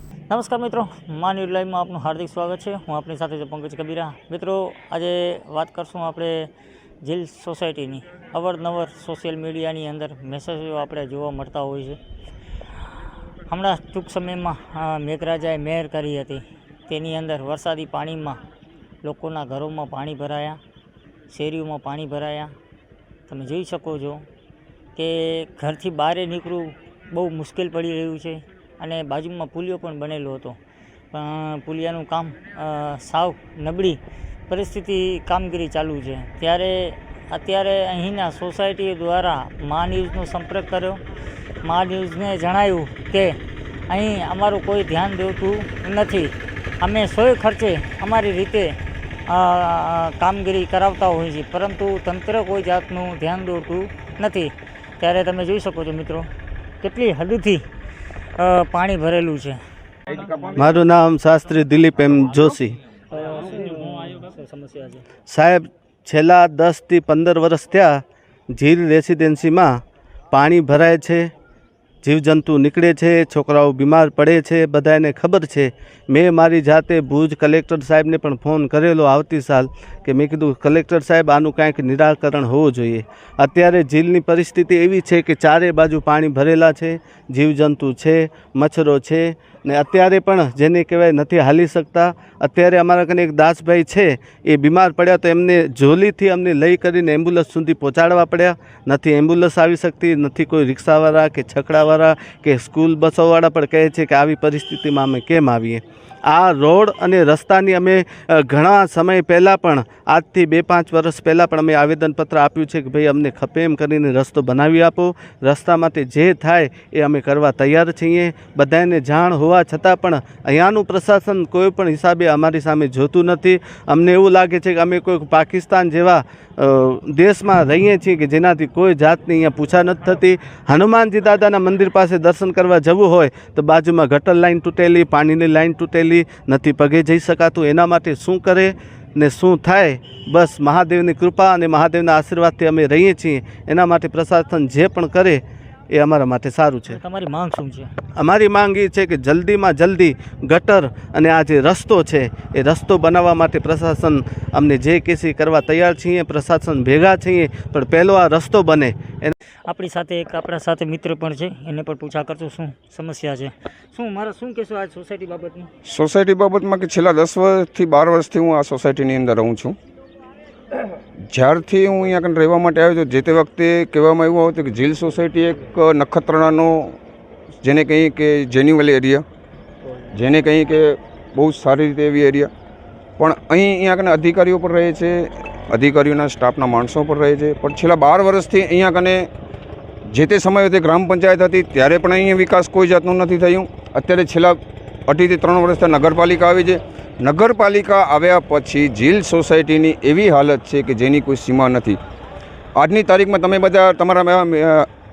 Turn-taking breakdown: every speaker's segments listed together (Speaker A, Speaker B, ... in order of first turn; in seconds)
Speaker A: 0.3-6.5, 7.0-12.0, 13.5-18.4, 19.0-20.6, 21.3-22.5, 23.3-24.2, 24.9-30.6, 31.1-41.0, 41.6-43.4, 43.9-56.3, 56.8-57.6, 58.4-59.6, 63.1-65.0, 146.9-147.9, 159.7-165.7
Speaker B: 60.5-62.8, 65.3-68.0, 68.5-69.8, 70.3-71.3, 72.0-147.0, 148.2-159.3
Speaker C: 165.8-169.8, 171.3-176.9, 177.6-179.2, 180.1-182.5, 183.2-189.3, 190.1-202.0, 202.8-204.9